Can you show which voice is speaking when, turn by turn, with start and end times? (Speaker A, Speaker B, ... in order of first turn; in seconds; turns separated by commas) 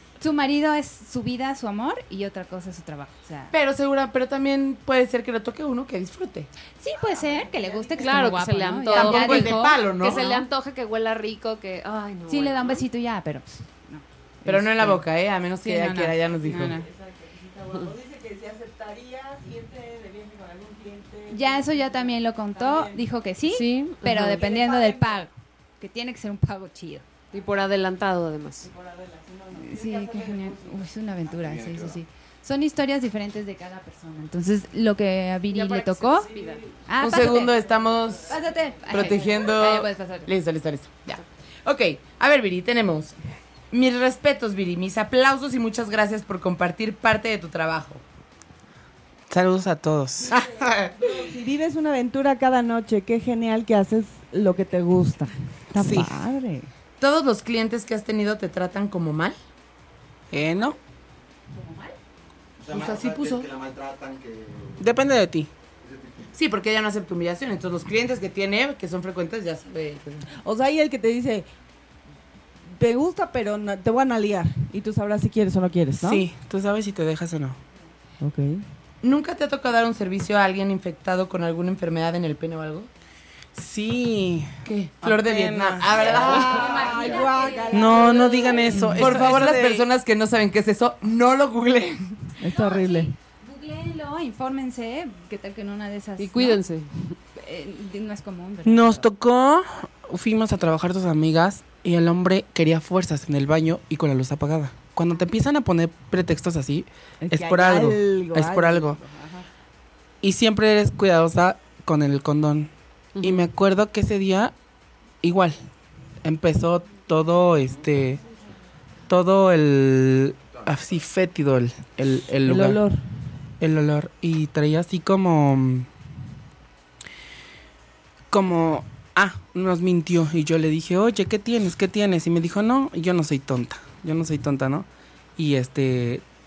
Speaker A: 0.2-3.5, Speaker B: 3.5-6.5, Speaker A: 6.8-10.4, Speaker C: 7.1-8.3, Speaker D: 8.0-12.8, Speaker B: 8.0-8.4, Speaker B: 8.9-10.3, Speaker A: 12.3-15.0, Speaker B: 14.4-16.8, Speaker A: 15.6-16.9, Speaker C: 16.3-23.1, Speaker A: 21.3-27.1, Speaker D: 23.5-24.5, Speaker C: 24.2-25.3, Speaker D: 27.3-28.7, Speaker C: 27.3-27.7, Speaker C: 28.6-30.9, Speaker A: 29.6-36.3, Speaker E: 31.3-32.0, Speaker D: 35.5-36.6, Speaker C: 36.1-39.5, Speaker A: 36.9-37.6, Speaker B: 37.0-38.4, Speaker A: 38.3-40.3, Speaker B: 38.9-43.1, Speaker B: 43.7-48.0, Speaker F: 49.3-50.4, Speaker B: 50.3-50.9, Speaker C: 51.0-56.7, Speaker F: 55.8-56.2, Speaker B: 57.0-59.4, Speaker F: 60.3-60.8, Speaker A: 61.5-62.0, Speaker E: 62.6-65.0, Speaker B: 62.7-63.5, Speaker F: 64.8-65.5, Speaker E: 65.8-66.3, Speaker B: 66.3-70.3, Speaker C: 70.3-71.5, Speaker C: 72.7-76.2, Speaker F: 76.0-77.6, Speaker C: 78.2-78.6, Speaker B: 79.0-82.9, Speaker F: 83.6-86.4, Speaker B: 84.7-87.9, Speaker C: 86.0-89.4, Speaker A: 86.0-89.0, Speaker F: 87.7-89.9, Speaker B: 89.0-92.2, Speaker C: 92.4-93.1, Speaker A: 92.5-96.6, Speaker D: 96.2-97.2, Speaker A: 97.4-99.1, Speaker F: 98.7-109.0, Speaker C: 107.2-109.5, Speaker F: 110.2-114.5, Speaker D: 113.2-113.5, Speaker F: 115.2-115.6, Speaker F: 116.2-118.2, Speaker F: 119.1-122.8, Speaker C: 122.4-123.0, Speaker F: 123.6-125.9, Speaker F: 128.3-134.9, Speaker F: 135.4-136.2